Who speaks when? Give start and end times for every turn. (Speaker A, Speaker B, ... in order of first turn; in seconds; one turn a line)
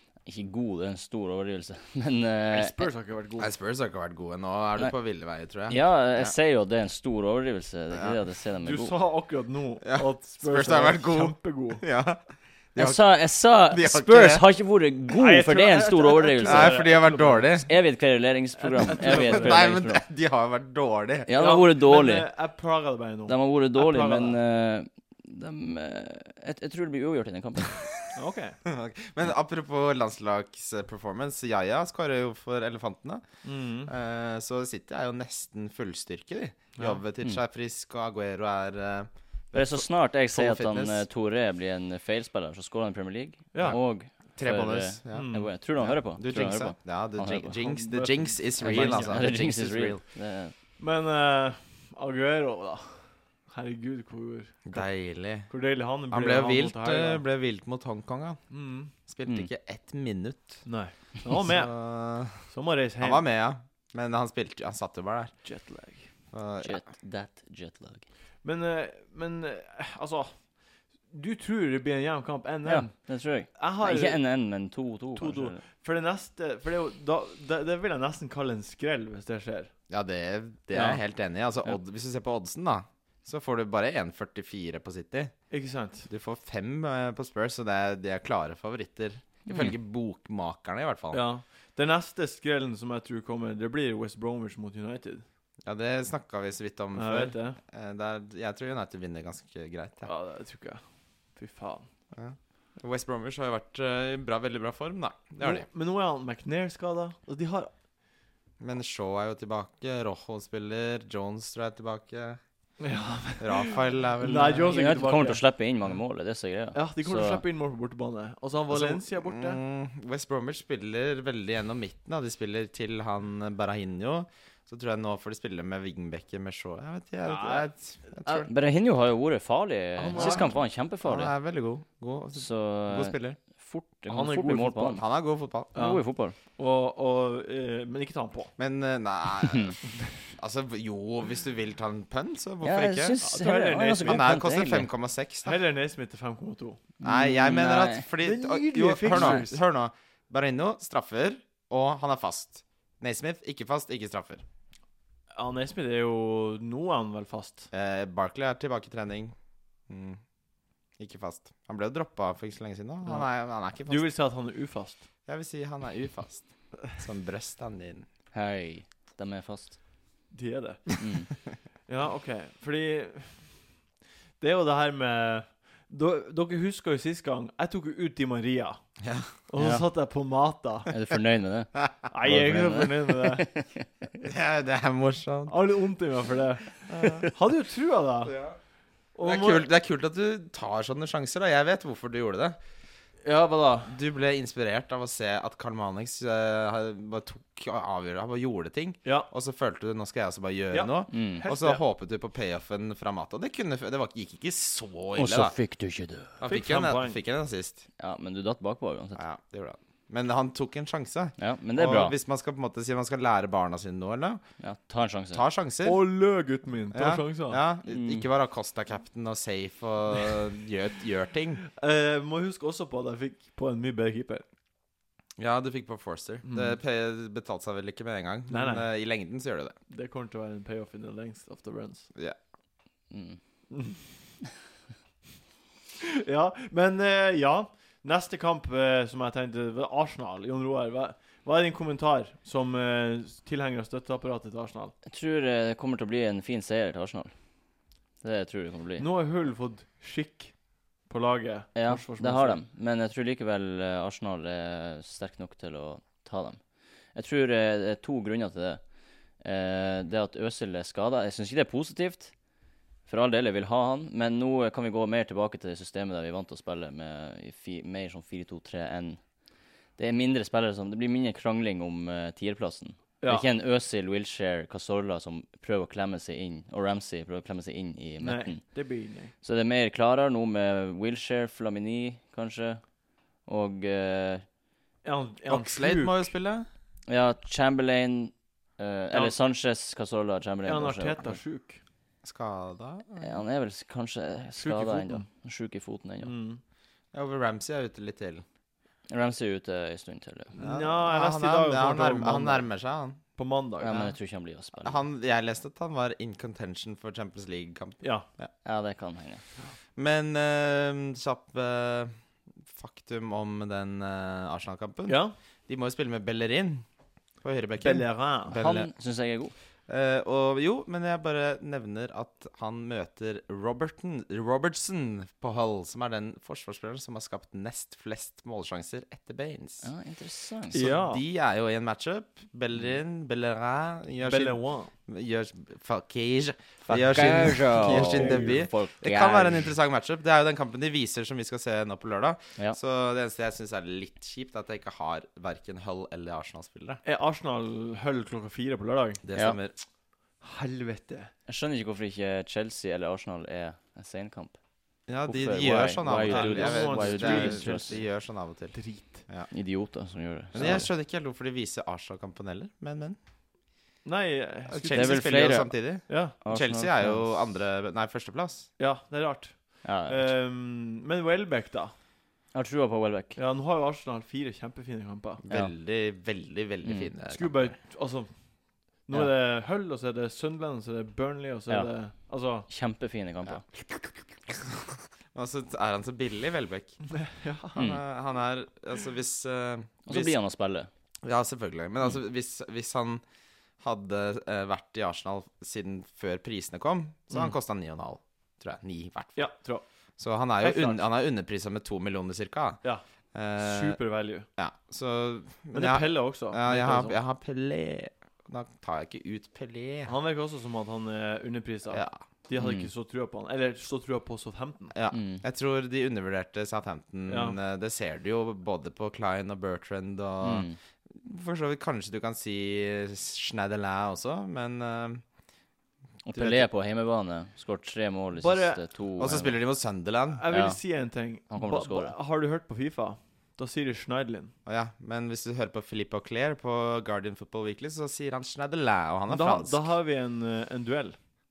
Speaker A: 0.2-2.9
Speaker B: 2.5-3.5
Speaker C: 3.4-6.3
Speaker A: 5.7-8.9
Speaker B: 8.6-11.8
Speaker C: 9.8-12.2
Speaker C: 12.7-13.0
Speaker A: 12.8-20.0
Speaker C: 13.7-14.4
Speaker B: 15.2-17.5
Speaker C: 16.4-17.7
Speaker B: 18.6-19.6
Speaker C: 18.9-21.3
Speaker A: 21.3-22.3
Speaker B: 21.3-24.4
Speaker A: 23.3-27.8
Speaker B: 28.1-28.6
Speaker C: 28.6-33.2
Speaker B: 33.4-33.9
Speaker C: 33.9-41.0
Speaker B: 36.8-37.0
Speaker A: 39.5-47.6
Speaker B: 43.5-43.8
Speaker C: 44.4-50.0
Speaker B: 45.1-45.5
Speaker B: 47.6-49.2
Speaker A: 48.6-50.5
Speaker B: 50.8-54.8
Speaker C: 54.6-55.5
Speaker B: 55.5-57.2
Speaker C: 56.1-58.4
Speaker B: 58.5-58.9
Speaker C: 59.1-60.6
Speaker B: 60.6-61.7
Speaker C: 61.3-62.4
Speaker B: 62.5-63.2
Speaker C: 63.0-65.3
Speaker B: 65.4-66.1
Speaker C: 66.3-66.8
Speaker A: 66.6-68.0
Speaker B: 68.4-70.5
Speaker B: 71.1-74.2
Speaker A: 72.7-75.6
Speaker B: 75.1-79.7
Speaker C: 79.9-85.3
Speaker B: 85.5-86.1
Speaker C: 86.1-91.2
Speaker A: 89.5-89.7
Speaker B: 91.1-95.2
Speaker C: 95.7-100.1
Speaker B: 96.9-97.6
Speaker B: 100.0-100.8
Speaker B: 101.3-101.9
Speaker C: 102.1-105.7
Speaker B: 105.3-107.7
Speaker C: 108.6-112.4
Speaker B: 112.8-115.4
Speaker C: 113.4-114.7
Speaker A: 114.7-117.4
Speaker B: 116.7-119.6
Speaker C: 118.7-128.5
Speaker B: 127.2-128.4
Speaker A: 128.4-131.3
Speaker B: 130.0-130.6
Speaker C: 130.1-130.5
Speaker C: 131.0-133.4
Speaker A: 132.3-135.0
Speaker B: 134.1-135.0
Speaker C: 134.9-135.7
Speaker B: 135.7-138.5
Speaker A: 135.7-136.3
Speaker C: 138.6-139.8
Speaker A: 139.4-139.7
Speaker C: 140.3-143.2
Speaker A: 142.6-144.9
Speaker B: 143.2-144.2
Speaker C: 144.0-145.6
Speaker B: 145.4-146.8
Speaker A: 147.0-148.1
Speaker C: 147.0-154.4
Speaker B: 148.2-149.6
Speaker A: 149.1-149.4
Speaker B: 155.3-157.7
Speaker C: 157.7-159.3
Speaker C: 159.9-160.2
Speaker C: 161.0-164.1
Speaker B: 163.8-165.0
Speaker C: 165.3-168.1
Speaker A: 168.3-169.8
Speaker B: 170.3-171.2
Speaker A: 171.0-171.3
Speaker B: 171.9-173.5
Speaker B: 174.4-178.8
Speaker C: 179.0-179.3
Speaker B: 179.5-180.9
Speaker A: 179.6-179.8
Speaker A: 180.9-183.9
Speaker B: 182.1-183.5
Speaker C: 184.2-185.5
Speaker B: 185.5-188.3
Speaker C: 186.9-187.3
Speaker C: 188.2-188.6
Speaker B: 189.1-189.7
Speaker C: 189.2-192.6
Speaker B: 193.2-193.9
Speaker C: 193.9-205.5
Speaker B: 200.7-201.8
Speaker A: 201.1-201.4
Speaker A: 205.2-206.4
Speaker C: 206.4-207.8
Speaker B: 206.4-207.2
Speaker A: 208.0-209.2
Speaker C: 209.2-214.4
Speaker A: 211.4-212.1
Speaker A: 214.6-215.4
Speaker C: 215.3-216.0
Speaker B: 215.8-217.6
Speaker C: 216.9-221.6
Speaker A: 217.9-218.2
Speaker B: 221.8-224.4
Speaker C: 225.4-229.8
Speaker B: 226.4-226.8
Speaker B: 228.5-228.8
Speaker B: 229.9-232.1
Speaker A: 233.1-233.4
Speaker B: 233.7-234.0
Speaker B: 236.0-244.9
Speaker A: 245.1-247.3
Speaker A: 248.2-249.1
Speaker B: 249.0-250.5
Speaker B: 251.1-252.6
Speaker A: 251.7-256.6
Speaker A: 257.1-258.9
Speaker A: 259.4-262.3
Speaker A: 263.1-269.2
Speaker A: 270.0-278.8
Speaker B: 273.2-273.5
Speaker B: 278.2-279.3
Speaker A: 279.4-282.8
Speaker A: 283.4-284.4
Speaker B: 285.0-286.3
Speaker C: 285.5-286.7
Speaker A: 287.1-291.4
Speaker B: 290.6-291.8
Speaker C: 292.2-293.4
Speaker A: 293.2-296.3
Speaker B: 294.6-295.3
Speaker B: 296.2-296.6
Speaker C: 297.1-298.4
Speaker A: 299.1-300.5
Speaker B: 300.5-302.7
Speaker C: 300.6-303.2
Speaker B: 303.3-304.1
Speaker A: 303.8-305.0
Speaker C: 304.8-308.5
Speaker B: 308.0-308.3
Speaker A: 308.6-309.4
Speaker C: 309.9-312.1
Speaker C: 312.7-316.8
Speaker B: 315.1-315.3
Speaker C: 317.4-318.9
Speaker B: 317.8-318.6
Speaker A: 318.5-319.5
Speaker C: 319.9-329.9
Speaker A: 329.8-330.8
Speaker B: 330.7-331.2
Speaker C: 330.7-347.0
Speaker B: 334.2-334.9
Speaker A: 336.9-339.7
Speaker B: 337.8-338.6
Speaker B: 347.0-349.2
Speaker C: 349.2-349.8
Speaker B: 350.4-351.3
Speaker A: 351.5-354.6
Speaker C: 355.1-358.8
Speaker A: 355.2-358.0
Speaker B: 356.2-358.0
Speaker B: 358.7-359.3
Speaker A: 359.5-360.9
Speaker C: 360.5-363.2
Speaker B: 360.6-360.8
Speaker B: 364.0-365.3
Speaker C: 364.7-368.7
Speaker A: 364.9-365.7
Speaker B: 366.1-366.4
Speaker A: 366.4-367.3
Speaker B: 368.8-371.9
Speaker A: 369.8-370.3
Speaker A: 372.5-373.4
Speaker B: 373.4-375.4
Speaker C: 375.4-377.7
Speaker A: 376.8-377.1
Speaker B: 377.3-378.3
Speaker B: 379.0-382.7
Speaker A: 382.7-383.6
Speaker C: 384.5-387.0
Speaker B: 387.1-387.8
Speaker A: 387.8-388.0
Speaker C: 387.8-390.4
Speaker A: 390.1-390.9
Speaker C: 391.2-393.2
Speaker C: 393.8-399.5
Speaker B: 399.4-399.8
Speaker C: 400.2-402.8
Speaker B: 400.6-401.0
Speaker C: 403.3-404.0
Speaker B: 403.6-404.5
Speaker C: 404.6-410.1
Speaker B: 405.7-407.2
Speaker B: 410.1-414.9
Speaker C: 411.9-412.2
Speaker A: 412.6-412.9
Speaker C: 414.9-425.2
Speaker A: 415.1-415.4
Speaker B: 417.3-417.6
Speaker A: 420.4-420.8
Speaker A: 426.2-429.6
Speaker C: 426.3-426.7
Speaker B: 428.4-428.8
Speaker C: 429.2-430.4
Speaker B: 430.3-434.5
Speaker A: 430.5-430.8
Speaker A: 431.5-432.1
Speaker C: 434.6-439.8
Speaker B: 439.3-441.2